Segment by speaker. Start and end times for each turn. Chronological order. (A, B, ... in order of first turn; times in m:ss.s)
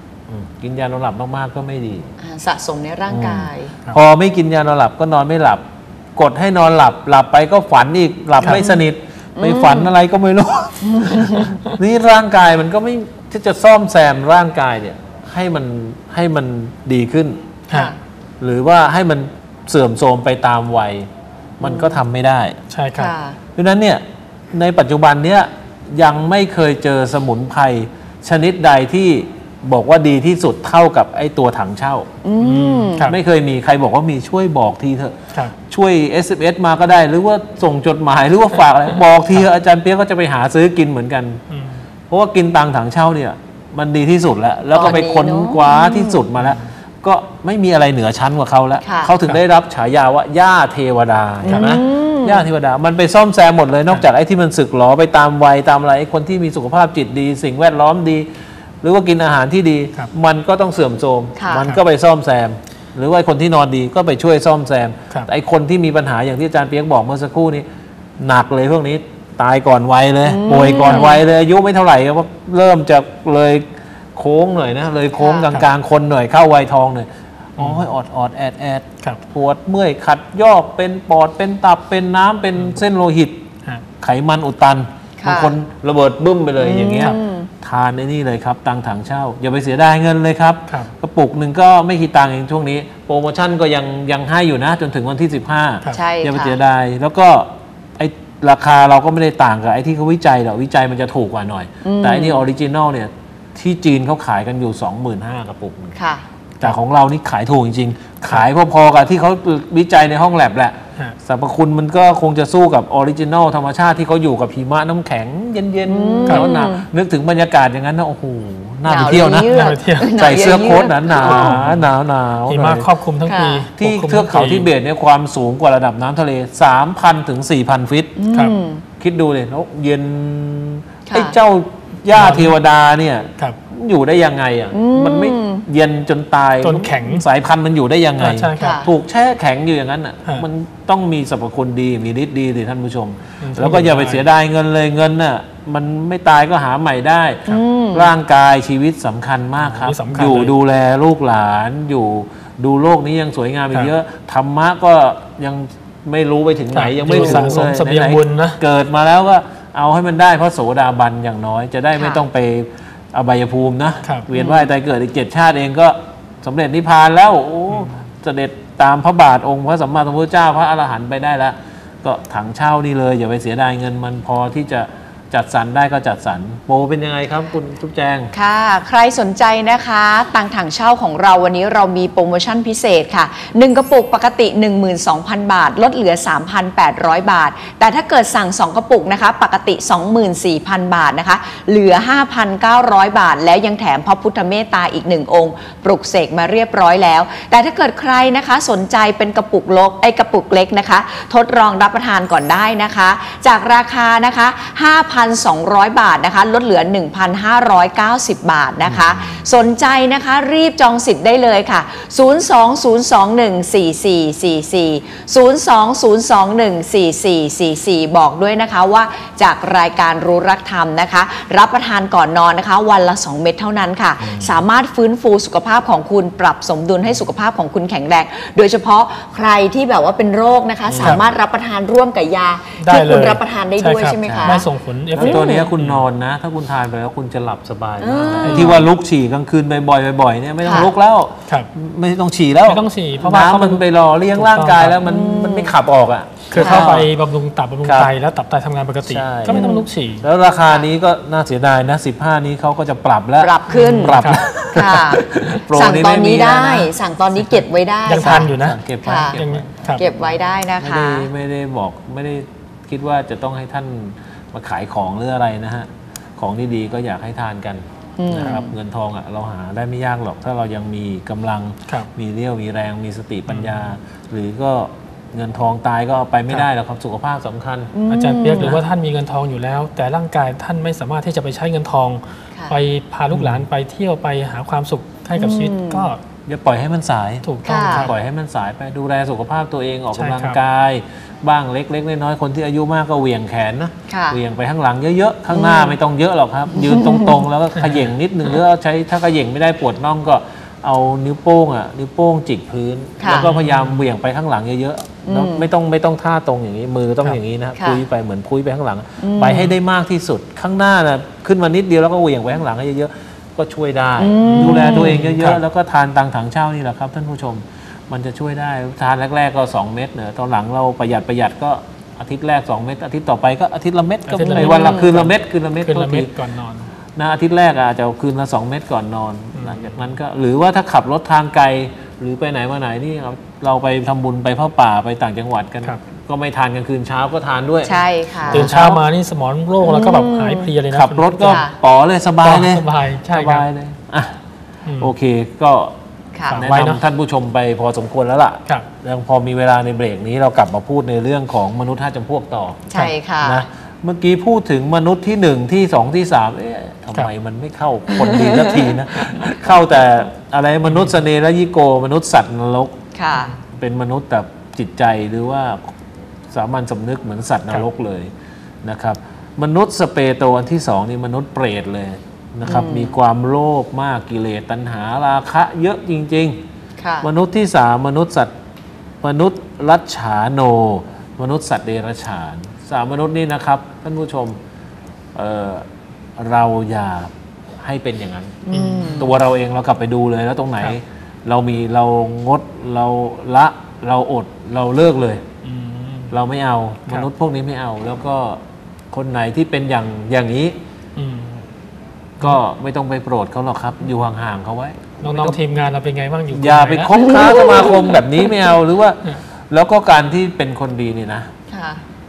0:00.3-0:02.1 A
0:02.2-0:03.7 B
0:03.1-0:05.6 A
0:06.2-0:17.5 A
0:08.5-0:08.8 B
0:09.4-0:09.9 B
0:10.8-0:11.6 B
0:17.7-0:18.0 B
0:18.4-0:21.1 A
0:21.6-0:22.6 A
0:21.6-0:22.0 B
0:22.7-0:23.1 C
0:23.0-0:23.4 B
0:23.6-0:32.1 A
0:32.2-0:33.0 B
0:32.4-0:33.2 C
0:33.0-0:35.2 A
0:35.7-0:41.4 A
0:41.5-0:41.8 C
0:42.1-0:58.3 A
0:44.7-0:46.2 B
0:46.4-0:46.6 C
0:48.8-0:49.1 B
0:51.4-0:52.5 B
0:51.5-0:51.8 C
0:58.8-1:07.6 A
1:01.4-1:01.7 B
1:08.2-1:23.4 A
1:10.2-1:11.2 B
1:15.2-1:15.5 B
1:17.6-1:17.9 C
1:24.0-1:45.9 A
1:25.2-1:25.6 B
1:26.6-1:27.5 B
1:35.9-1:36.6 B
1:41.8-1:42.4 B
1:45.9-1:46.2 B
1:46.6-1:59.5 A
1:55.8-1:56.8 B
1:56.3-1:56.5 C
1:58.8-2:01.5 B
1:59.4-2:00.1 C
2:00.2-2:02.9 A
2:01.1-2:01.9 C
2:02.4-2:04.7 C
2:03.2-2:03.6 B
2:03.8-2:08.2 A
2:08.1-2:08.8 B
2:09.0-2:58.3 A
2:11.1-2:11.4 B
2:12.1-2:12.5 C
2:14.7-2:15.6 B
2:16.6-2:17.2 C
2:18.2-2:18.9 C
2:18.6-2:18.9 B
2:23.4-2:24.2 C
2:27.5-2:28.1 B
2:29.6-2:30.5 C
2:36.7-2:38.6 C
2:41.9-2:42.2 B
2:44.3-2:44.7 B
2:47.7-2:47.9 C
2:58.3-3:54.6 B
3:28.8-3:29.5 A
3:44.2-3:44.6 A
3:50.9-3:51.3 A
3:52.8-3:56.0 C
3:54.2-4:07.1 A
3:55.2-3:55.7 B
3:58.0-3:58.8 B
3:58.4-3:58.9 C
4:00.6-4:00.9 B
4:02.6-4:05.0 C
4:05.0-4:05.7 B
4:06.5-4:10.2 C
4:06.6-4:07.0 B
4:07.8-4:08.1 A
4:09.0-4:16.9 A
4:09.5-4:09.8 B
4:13.4-4:18.5 B
4:13.7-4:14.4 C
4:18.0-4:20.0 C
4:18.2-4:37.9 A
4:19.0-4:19.4 B
4:19.9-4:21.3 B
4:28.2-4:28.7 B
4:28.3-4:28.6 C
4:33.5-4:33.9 C
4:37.9-4:38.8 B
4:38.1-4:46.2 C
4:38.5-4:38.8 A
4:43.3-4:43.6 A
4:45.4-4:46.1 B
4:46.4-5:26.3 A
4:47.4-4:48.1 C
4:47.6-4:48.1 B
4:50.1-4:50.6 C
4:54.1-4:54.4 B
4:55.5-4:56.0 B
4:56.7-4:57.4 B
4:57.8-4:58.1 C
5:03.2-5:03.5 B
5:03.3-5:04.0 C
5:05.2-5:05.6 B
5:07.8-5:08.0 B
5:09.2-5:09.7 B
5:14.2-5:15.2 B
5:14.4-5:15.6 C
5:24.3-5:26.9 C
5:24.5-5:25.1 B
5:27.1-5:39.0 A
5:29.6-5:29.9 C
5:37.8-5:38.7 B
5:38.5-5:41.6 C
5:39.8-5:40.7 B
5:40.9-5:44.4 A
5:41.4-5:41.7 B
5:42.4-5:43.7 C
5:44.9-5:45.1 C
5:45.0-5:45.9 A
5:46.3-5:46.6 B
5:46.5-5:47.0 C
5:46.5-5:52.9 A
5:52.9-5:53.7 B
5:53.4-6:03.0 A
5:58.1-5:58.9 B
6:00.9-6:01.1 C
6:03.1-6:03.5 B
6:03.7-6:05.9 A
6:06.5-6:08.3 A
6:08.8-6:16.6 A
6:12.6-6:13.2 B
6:17.0-6:17.3 B
6:17.2-6:18.5 A
6:19.2-6:24.6 A
6:25.3-6:25.8 A
6:26.4-6:35.4 A
6:28.6-6:29.3 B
6:28.7-6:29.3 C
6:35.6-6:36.3 C
6:36.3-6:38.6 A
6:39.1-6:40.8 A
6:41.2-6:41.6 C
6:42.4-6:45.6 A
6:45.2-6:47.2 C
6:46.5-6:51.5 A
6:47.2-6:48.2 B
6:51.7-6:52.0 B